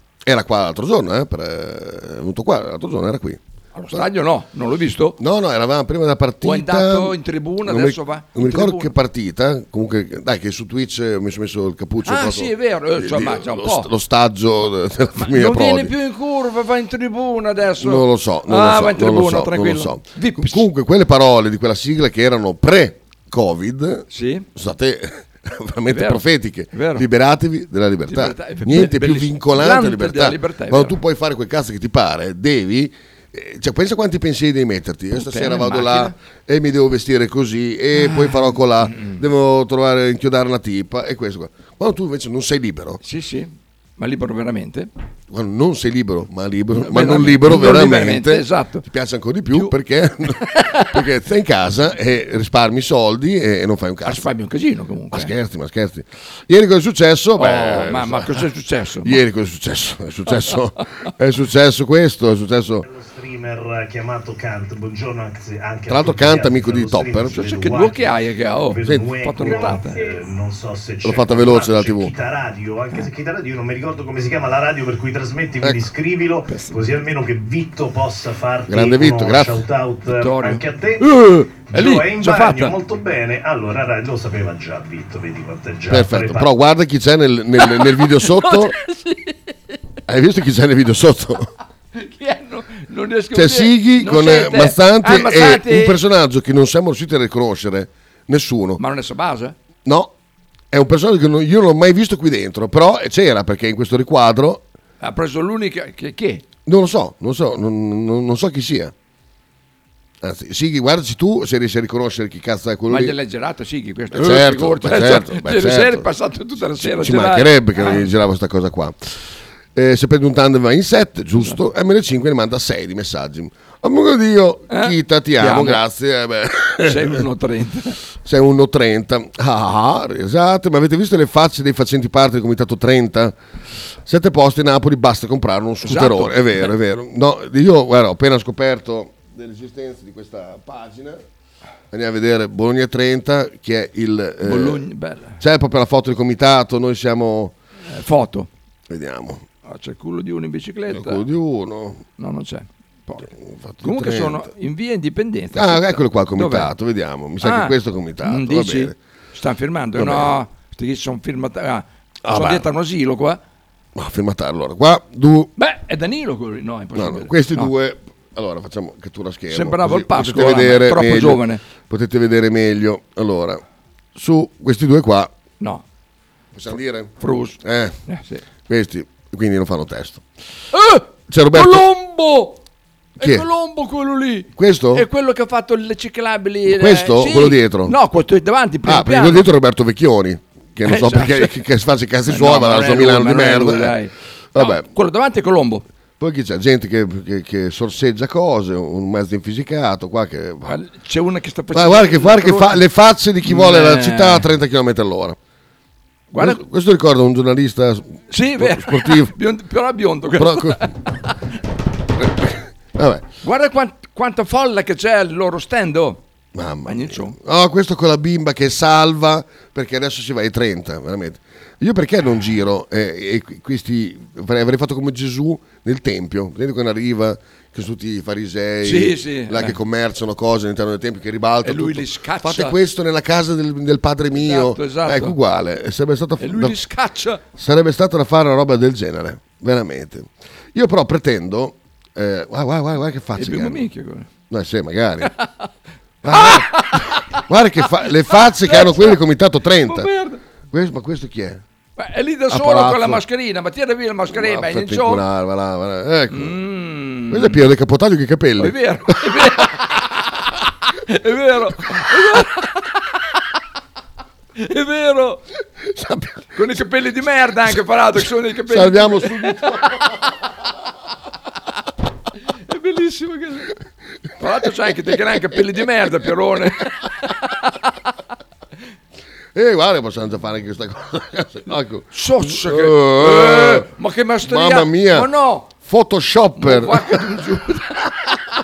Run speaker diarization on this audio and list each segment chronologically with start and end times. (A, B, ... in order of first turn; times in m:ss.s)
0:00.2-0:03.4 A
0:03.7-0:05.2 B
0:05.2-0:15.9 A
0:06.4-0:08.9 B
0:12.0-0:13.9 B
0:15.2-0:20.7 B
0:17.8-0:43.0 A
0:24.1-0:24.4 B
0:25.9-0:26.2 B
0:26.7-0:27.1 B
0:28.1-0:31.0 B
0:35.1-0:36.1 B
0:38.0-0:39.2 B
0:43.0-0:44.9 B
0:45.3-0:54.3 A
0:46.7-0:48.8 B
0:50.5-0:50.9 B
0:54.0-0:55.3 B
0:55.1-0:58.4 A
0:57.4-0:59.2 B
0:59.0-1:02.8 A
1:02.8-1:08.1 C
1:05.9-1:07.4 A
1:07.3-1:10.1 B
1:08.7-1:21.0 C
1:08.8-1:09.6 A
1:11.0-1:12.1 A
1:16.5-1:16.8 B
1:18.7-1:19.6 A
1:20.1-1:22.8 B
1:21.6-1:26.5 C
1:25.9-1:28.7 A
1:27.6-1:29.5 B
1:30.1-1:31.5 A
1:31.9-1:36.0 B
1:33.3-1:38.8 A
1:38.8-1:39.5 B
1:39.8-1:40.1 A
1:40.7-1:44.6 A
1:45.0-1:46.4 B
1:46.6-1:48.9 A
1:50.2-1:53.1 A
1:52.9-1:58.1 B
1:54.1-1:56.1 A
1:56.7-2:07.2 A
2:04.7-2:05.8 B
2:06.8-2:08.0 B
2:08.2-2:13.3 A
2:14.0-2:21.2 A
2:15.8-2:16.7 B
2:21.9-2:24.8 A
2:24.4-2:25.4 B
2:25.4-2:27.5 A
2:27.9-2:28.5 B
2:28.9-2:29.4 A
2:29.6-2:31.2 B
2:30.9-2:32.0 A
2:32.2-2:33.3 B
2:33.3-2:34.5 A
2:33.8-2:36.7 B
2:35.5-2:38.9 A
2:37.4-2:43.4 B
2:39.9-2:40.3 A
2:42.2-2:42.6 A
2:43.9-2:45.5 A
2:45.6-2:47.7 B
2:46.9-2:53.6 A
2:49.5-2:51.6 B
2:54.2-2:55.3 A
2:56.5-2:58.0 A
2:57.2-2:58.4 B
2:58.7-3:00.2 A
3:00.7-3:02.6 B
3:01.3-3:01.8 A
3:03.2-3:09.5 B
3:03.2-3:03.4 A
3:04.6-3:05.0 A
3:06.6-3:07.9 A
3:08.8-3:14.0 A
3:10.8-3:11.5 B
3:12.3-3:15.8 B
3:14.5-3:14.8 A
3:16.2-3:20.8 A
3:20.6-3:22.8 B
3:21.7-3:25.4 A
3:23.4-3:24.5 B
3:26.3-3:26.6 B
3:26.4-3:29.3 A
3:28.3-3:31.0 B
3:30.4-3:30.8 A
3:32.2-3:33.2 A
3:33.4-3:36.2 B
3:36.5-3:56.8 A
3:36.8-3:37.4 B
3:48.8-3:49.8 B
3:51.6-3:52.8 B
3:54.3-3:55.4 B
3:56.4-3:57.4 B
3:57.5-4:03.8 A
4:03.4-4:04.3 B
4:04.5-4:05.3 A
4:06.2-4:10.1 A
4:06.3-4:07.0 B
4:08.3-4:09.2 B
4:09.8-4:10.4 B
4:10.7-4:11.6 A
4:12.0-4:15.2 B
4:12.5-4:13.2 A
4:14.3-4:16.6 A
4:16.3-4:17.6 B
4:17.3-4:18.7 A
4:18.6-4:20.3 B
4:21.1-4:23.0 B
4:24.6-4:25.4 B
4:25.9-4:26.4 A
4:26.6-4:29.8 B
4:28.7-4:30.1 A
4:32.7-4:33.7 B
4:34.4-4:37.8 B
4:39.5-4:43.9 A
4:42.1-4:45.7 B
4:44.4-4:45.3 A
4:45.8-4:47.4 A
4:46.6-4:48.0 B